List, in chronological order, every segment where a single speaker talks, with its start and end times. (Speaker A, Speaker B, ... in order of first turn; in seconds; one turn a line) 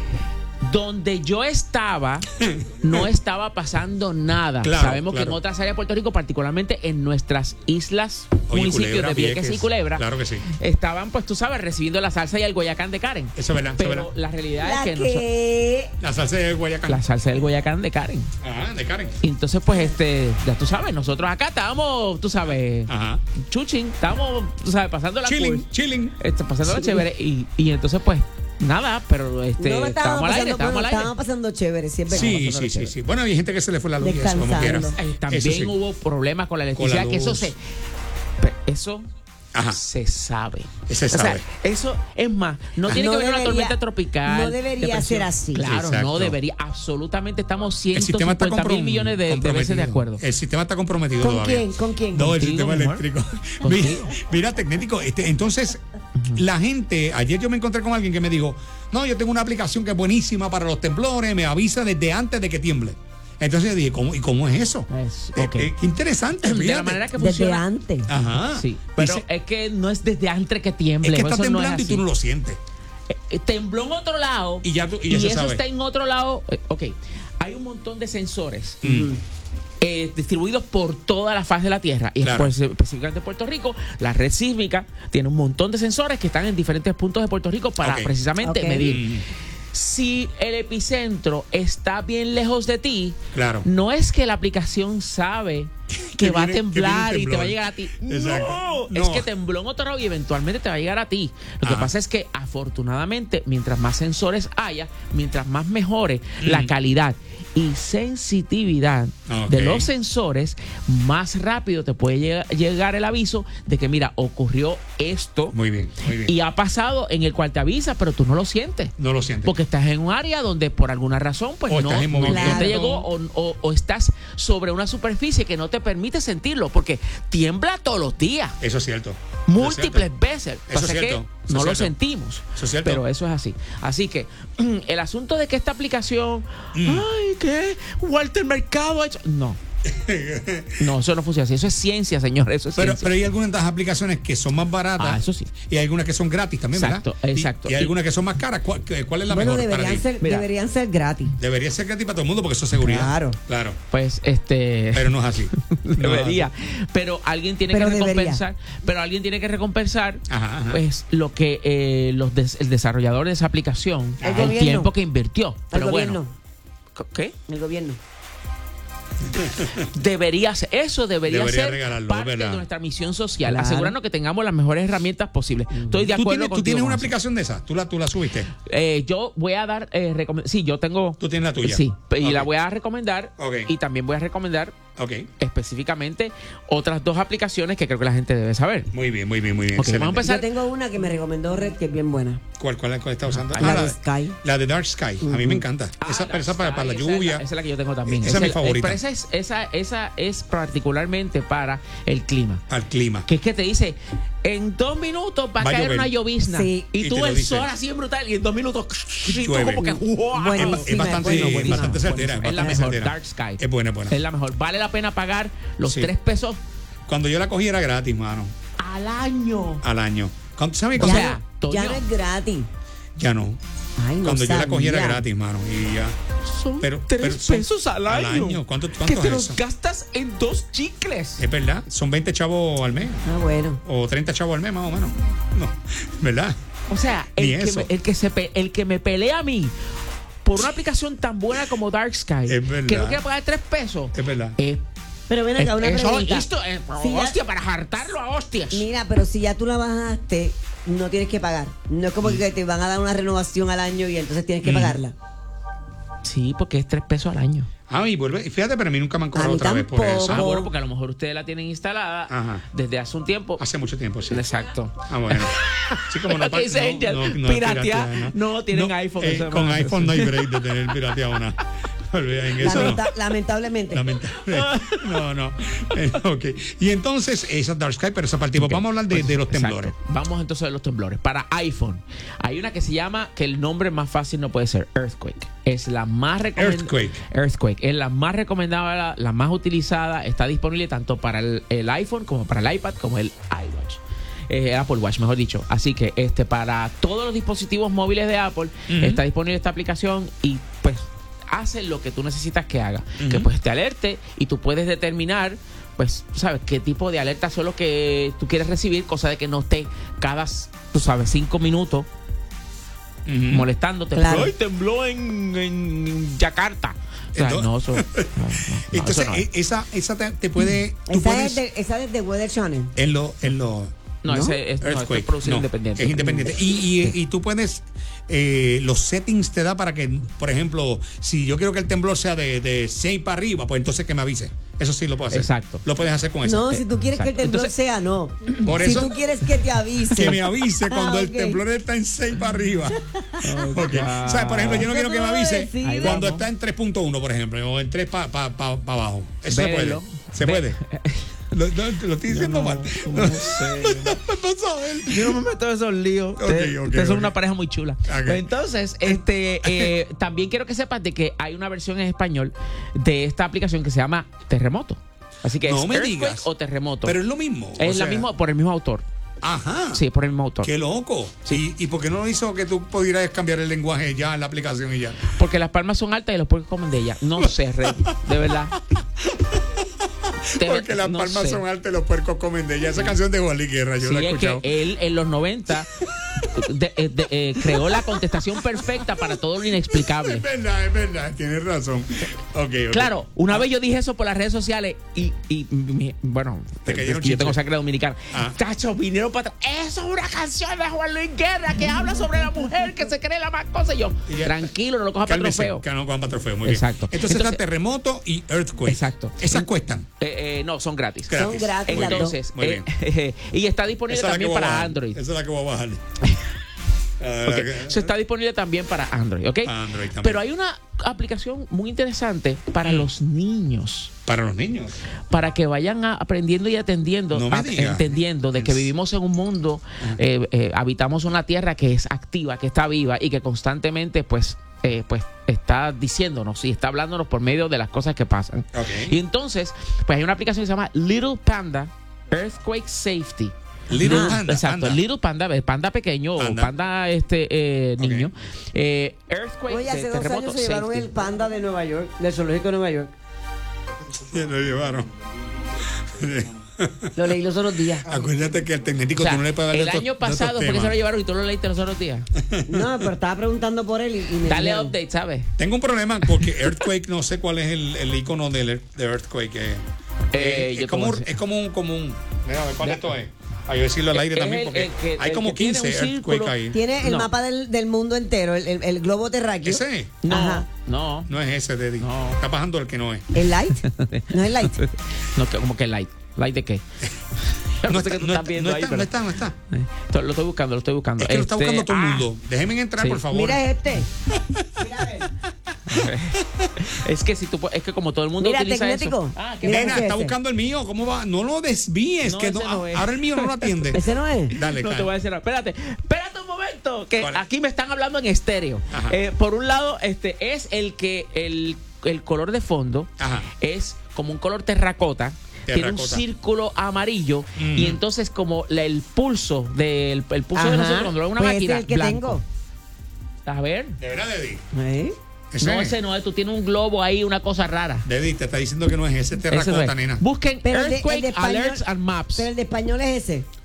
Speaker A: 0.6-2.3
Speaker B: 2.4-3.1
Speaker A: 2.8-15.2
Speaker B: 4.6-5.4
Speaker B: 8.5-10.4
Speaker B: 13.3-14.1
Speaker C: 14.6-15.9
Speaker B: 16.0-17.0
Speaker A: 16.9-18.3
Speaker B: 18.4-19.2
Speaker A: 19.2-25.7
Speaker B: 22.9-23.2
Speaker B: 25.2-26.1
Speaker A: 26.2-31.1
Speaker C: 26.6-27.1
Speaker C: 29.6-32.4
Speaker A: 32.1-32.9
Speaker B: 32.1-35.8
Speaker C: 34.0-35.0
Speaker A: 35.0-37.6
Speaker B: 36.8-37.5
Speaker A: 38.4-39.1
Speaker B: 39.5-39.8
Speaker A: 39.7-50.2
Speaker B: 40.9-41.5
Speaker C: 42.9-45.6
Speaker B: 45.6-46.3
Speaker B: 47.9-55.8
Speaker C: 51.2-52.3
Speaker A: 52.3-53.0
Speaker A: 53.6-54.1
Speaker B: 56.3-67.0
Speaker A: 64.9-65.7
Speaker A: 66.4-67.6
Speaker C: 67.2-68.1
Speaker B: 68.1-69.2
Speaker A: 68.5-72.0
Speaker B: 71.0-72.6
Speaker A: 73.1-78.9
Speaker B: 74.6-75.6
Speaker B: 78.8-79.1
Speaker C: 78.8-79.2
Speaker A: 79.8-89.0
Speaker B: 82.2-82.5
Speaker B: 87.8-88.2
Speaker C: 88.4-89.0
Speaker B: 88.8-89.2
Speaker A: 89.7-115.6
Speaker B: 93.3-93.7
Speaker B: 95.9-99.3
Speaker B: 101.6-101.9
Speaker B: 106.4-106.7
Speaker B: 109.3-109.9
Speaker B: 115.5-116.3
Speaker A: 116.1-128.6
Speaker B: 119.0-119.6
Speaker B: 121.7-122.8
Speaker C: 122.3-123.0
Speaker B: 128.6-130.1
Speaker A: 129.5-139.6
Speaker B: 130.7-131.9
Speaker B: 132.5-133.0
Speaker B: 136.7-137.1
Speaker B: 139.8-140.9
Speaker A: 140.8-143.1
Speaker B: 142.8-150.0
Speaker A: 145.0-145.5
Speaker A: 146.7-147.9
Speaker C: 149.3-151.3
Speaker A: 150.2-150.5
Speaker B: 151.4-153.8
Speaker C: 152.8-153.4
Speaker A: 153.9-166.2
Speaker B: 154.9-156.5
Speaker C: 157.7-158.4
Speaker B: 160.3-160.8
Speaker B: 164.2-164.6
Speaker C: 164.2-164.9
Speaker C: 165.7-166.3
Speaker A: 166.9-167.3
Speaker C: 167.5-168.0
Speaker B: 169.2-169.8
Speaker A: 169.8-177.1
Speaker B: 171.3-172.6
Speaker C: 173.4-173.9
Speaker B: 175.9-178.5
Speaker A: 178.6-184.8
Speaker B: 181.2-182.5
Speaker B: 183.4-183.7
Speaker B: 185.0-185.3
Speaker A: 185.4-188.9
Speaker B: 188.9-190.2
Speaker A: 189.8-190.5
Speaker C: 190.2-192.4
Speaker B: 192.6-197.4
Speaker A: 193.3-193.9
Speaker C: 193.6-194.4
Speaker C: 195.2-195.6
Speaker A: 196.0-202.6
Speaker B: 198.1-199.0
Speaker B: 202.7-203.2
Speaker A: 203.2-216.6
Speaker B: 205.6-206.1
Speaker C: 206.4-206.9
Speaker B: 207.0-207.7
Speaker B: 209.2-210.0
Speaker C: 210.3-212.0
Speaker B: 210.5-214.2
Speaker B: 215.8-216.1
Speaker B: 217.1-218.5
Speaker A: 218.8-219.8
Speaker B: 219.8-221.3
Speaker A: 221.0-222.0
Speaker C: 221.0-222.7
Speaker B: 223.2-223.6
Speaker C: 224.0-225.2
Speaker B: 224.2-226.2
Speaker A: 226.4-231.4
Speaker B: 226.8-229.6
Speaker B: 231.4-233.2
Speaker C: 233.2-233.8
Speaker B: 233.8-236.6
Speaker A: 236.9-239.7
Speaker B: 237.3-237.9
Speaker A: 240.4-244.8
Speaker B: 242.5-243.2
Speaker B: 244.1-244.6
Speaker C: 245.3-247.4
Speaker A: 245.6-248.9
Speaker C: 248.7-255.1
Speaker B: 254.6-255.0
Speaker A: 256.2-257.7
Speaker B: 257.9-260.5
Speaker C: 259.3-260.7
Speaker A: 260.2-263.6
Speaker B: 262.3-262.6
Speaker B: 263.6-264.5
Speaker A: 264.3-270.5
Speaker B: 265.0-273.1
Speaker C: 272.6-274.1
Speaker A: 272.6-273.0
Speaker B: 273.9-279.9
Speaker A: 274.4-275.2
Speaker A: 278.6-312.1
Speaker B: 286.6-287.2
Speaker B: 298.9-299.2
Speaker B: 303.2-303.5
Speaker B: 313.2-313.7
Speaker A: 313.5-319.4
Speaker C: 314.1-314.5
Speaker B: 317.3-321.6
Speaker C: 321.1-322.9
Speaker B: 322.9-323.9
Speaker A: 324.2-326.5
Speaker C: 324.3-324.6
Speaker B: 324.8-336.7
Speaker A: 335.3-335.9
Speaker C: 336.4-341.6
Speaker A: 336.7-337.7
Speaker B: 338.6-339.2
Speaker B: 340.1-343.0
Speaker C: 343.1-343.6
Speaker A: 343.4-344.9
Speaker B: 343.7-350.8
Speaker C: 344.7-346.2
Speaker A: 345.8-346.4
Speaker A: 349.5-351.3
Speaker B: 351.5-355.4
Speaker A: 352.3-354.2
Speaker A: 355.0-367.2
Speaker B: 356.4-357.3
Speaker B: 358.1-358.4
Speaker B: 359.0-359.9
Speaker B: 365.6-366.5
Speaker B: 367.0-368.2
Speaker A: 367.8-369.0
Speaker B: 369.4-370.0
Speaker A: 369.9-370.7
Speaker B: 370.6-375.3
Speaker A: 375.3-378.8
Speaker B: 379.2-379.6
Speaker B: 380.4-384.6
Speaker A: 380.6-381.6
Speaker A: 384.0-385.9
Speaker A: 386.4-390.4
Speaker B: 387.6-388.1
Speaker B: 388.8-393.6
Speaker A: 392.9-405.8
Speaker B: 396.9-397.6
Speaker B: 404.3-404.7
Speaker B: 405.2-410.1
Speaker A: 406.6-407.6
Speaker A: 408.8-415.2
Speaker B: 411.3-412.9
Speaker C: 411.3-412.4
Speaker B: 414.1-416.0
Speaker B: 417.2-418.1
Speaker A: 417.4-424.1
Speaker B: 419.6-420.4
Speaker B: 422.8-423.1
Speaker B: 424.3-425.0
Speaker A: 425.3-451.1
Speaker B: 427.3-428.9
Speaker B: 438.7-439.1
Speaker B: 443.9-445.0
Speaker C: 444.0-444.4
Speaker B: 446.4-446.7
Speaker B: 448.0-448.3
Speaker C: 449.7-453.1
Speaker B: 454.2-455.1
Speaker B: 456.0-457.1
Speaker C: 457.1-458.1
Speaker B: 458.1-460.9
Speaker A: 459.1-462.3
Speaker B: 462.4-463.0
Speaker C: 462.7-464.9
Speaker A: 464.4-465.5
Speaker B: 465.6-476.8
Speaker A: 470.3-471.3
Speaker A: 472.8-473.1
Speaker A: 474.1-477.3
Speaker C: 476.7-480.6
Speaker B: 479.6-480.2
Speaker A: 480.2-481.3
Speaker B: 481.3-483.3
Speaker A: 482.0-482.4
Speaker C: 483.3-484.8
Speaker A: 483.8-486.8
Speaker A: 487.8-492.2
Speaker B: 487.8-489.5
Speaker B: 491.2-493.6
Speaker C: 493.3-494.1
Speaker C: 494.8-495.3
Speaker A: 495.9-500.0
Speaker B: 495.9-496.7
Speaker C: 498.4-500.3
Speaker B: 499.6-505.1
Speaker A: 502.2-504.0
Speaker C: 503.9-504.5
Speaker A: 504.5-522.4
Speaker B: 508.9-509.1
Speaker B: 513.2-513.5
Speaker B: 515.7-516.2
Speaker B: 517.5-518.0
Speaker C: 520.5-522.4
Speaker A: 523.5-524.0
Speaker B: 524.0-524.6
Speaker C: 524.7-525.2
Speaker B: 525.5-525.9
Speaker A: 525.6-528.1
Speaker B: 528.0-530.2
Speaker A: 529.5-532.5
Speaker C: 530.6-533.5